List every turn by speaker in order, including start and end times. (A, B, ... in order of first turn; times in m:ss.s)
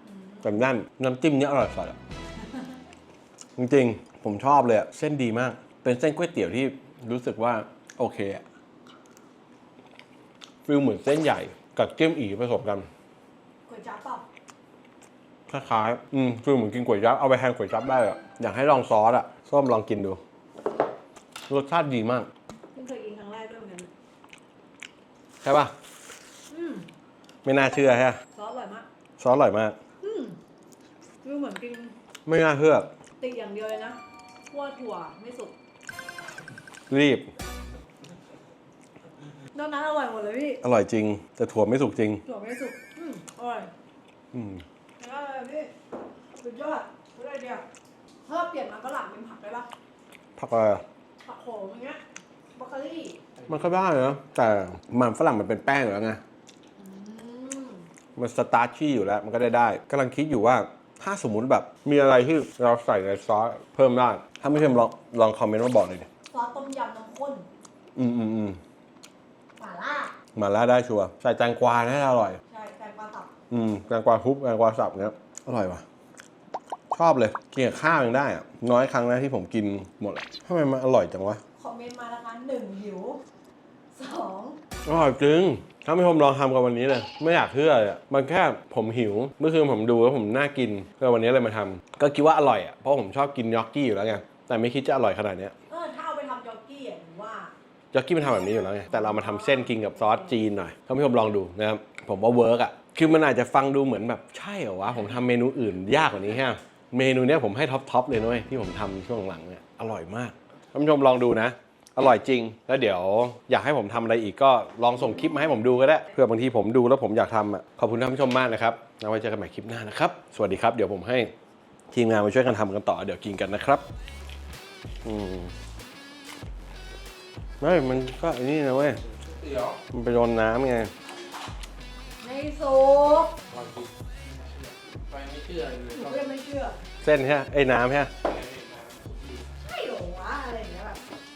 0:00.4-0:02.0 A
0:03.6-0:08.4 A
0:10.6-0:12.9 A
0:13.7-0:14.2 B
0:15.5-0:20.2 A
0:21.5-0:22.3 A
0:22.8-0:23.9 B
0:25.4-0:25.7 A
0:26.5-0:26.9 B
0:27.4-0:28.2 A
0:28.3-0:28.9 B
0:29.2-0:29.8 A
0:30.0-0:30.4 B
0:31.2-0:31.9 B
0:32.3-0:32.9 A
0:33.2-0:34.0 B
0:34.5-0:35.5 B
0:36.9-0:37.3 A
0:39.5-0:40.6 B
0:40.6-0:42.2 A
0:42.2-0:43.7 B
0:44.3-0:44.6 A
0:45.0-0:45.7 B
0:46.4-0:47.7 B
0:48.3-0:49.7 B
0:50.4-0:50.8 A
0:51.2-0:52.0 B
0:52.6-0:53.2 B
0:53.5-0:56.2 A
0:56.8-0:57.8 B
0:58.2-1:06.1 A
1:06.3-1:07.5 B
1:08.0-1:08.6 A
1:09.6-1:10.1 B
1:10.4-1:12.4 A
1:12.5-1:13.3 B
1:13.5-1:15.8 A
1:16.9-1:21.4 A
1:21.6-1:23.2 B
1:23.9-1:24.6 B
1:24.8-1:35.5 A
1:35.7-1:37.5 B
1:37.9-2:01.3 A
1:38.8-1:40.3 B
2:01.9-2:03.8 A
2:05.0-2:05.5 A
2:07.6-2:09.0 A
2:09.4-2:09.8 C
2:09.9-2:10.9 A
2:12.2-2:13.4 B
2:13.5-2:13.9 C
2:14.5-2:16.0 C
2:15.9-2:16.8 B
2:17.0-2:18.1 A
2:18.4-2:19.4 C
2:19.6-2:21.0 B